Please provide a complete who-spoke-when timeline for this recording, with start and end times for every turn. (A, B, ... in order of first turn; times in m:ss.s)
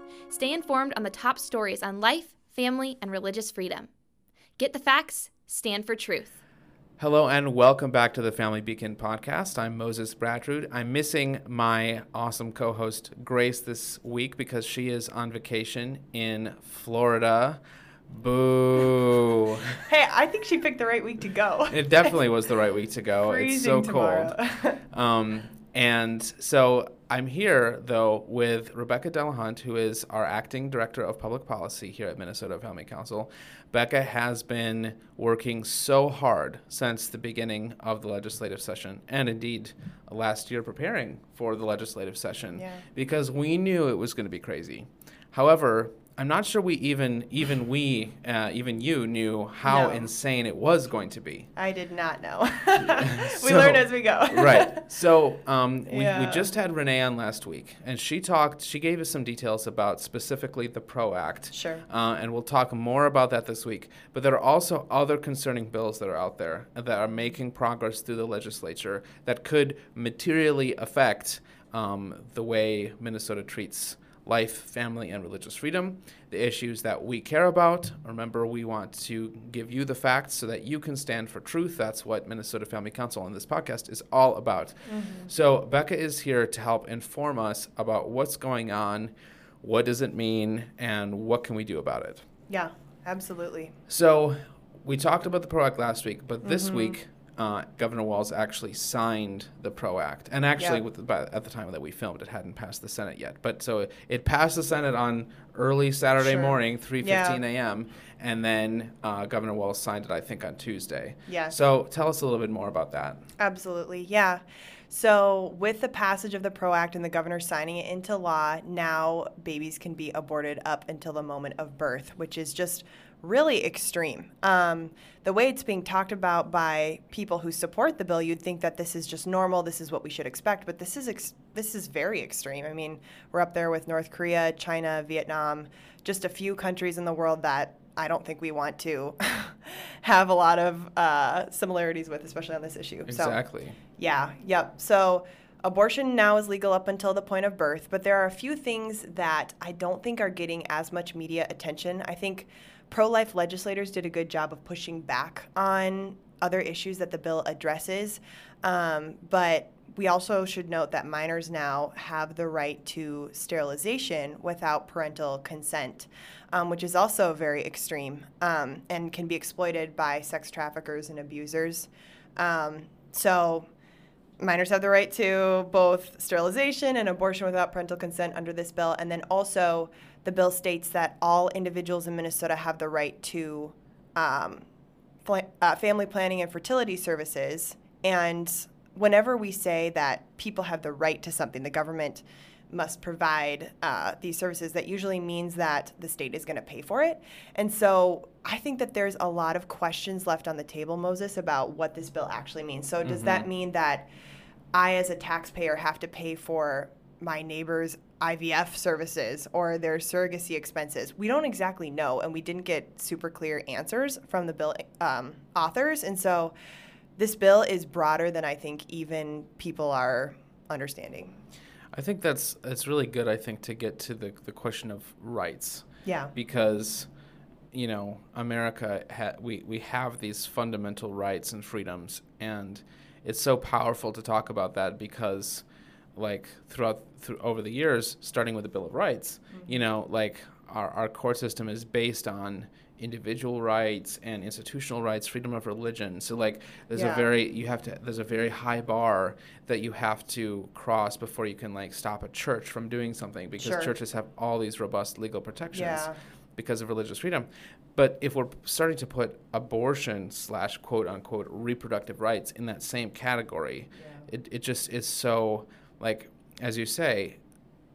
0:00.3-0:03.9 A
0:04.6-0:06.4 A
0:07.0-0:19.8 B
0:19.9-0:22.1 C
0:21.7-0:24.4 B
0:23.2-0:24.8 C
0:24.9-0:51.5 B
0:42.6-0:42.8 C
0:49.6-0:50.0 C
0:51.6-0:54.8 C
0:52.8-1:32.2 B
0:55.9-0:56.5 C
1:01.5-1:01.8 C
1:24.9-1:25.3 C
1:32.5-1:33.7 C
1:33.9-1:53.2 B
1:36.4-1:37.0 C
1:46.2-1:47.4 C
1:51.3-1:51.5 C
1:53.4-2:23.4 C
2:23.0-2:23.8 B
2:24.0-2:53.7 C
2:54.4-3:04.7 C
3:05.2-3:24.1 C
3:23.0-3:23.5 B
3:24.7-3:36.5 C
3:37.2-3:41.3 C
3:41.9-3:47.1 B
3:46.0-3:46.3 C
3:47.7-3:55.6 B
3:56.2-4:27.4 B
4:06.9-4:07.3 C
4:13.6-4:13.9 C
4:15.7-4:16.2 C
4:23.9-4:24.2 C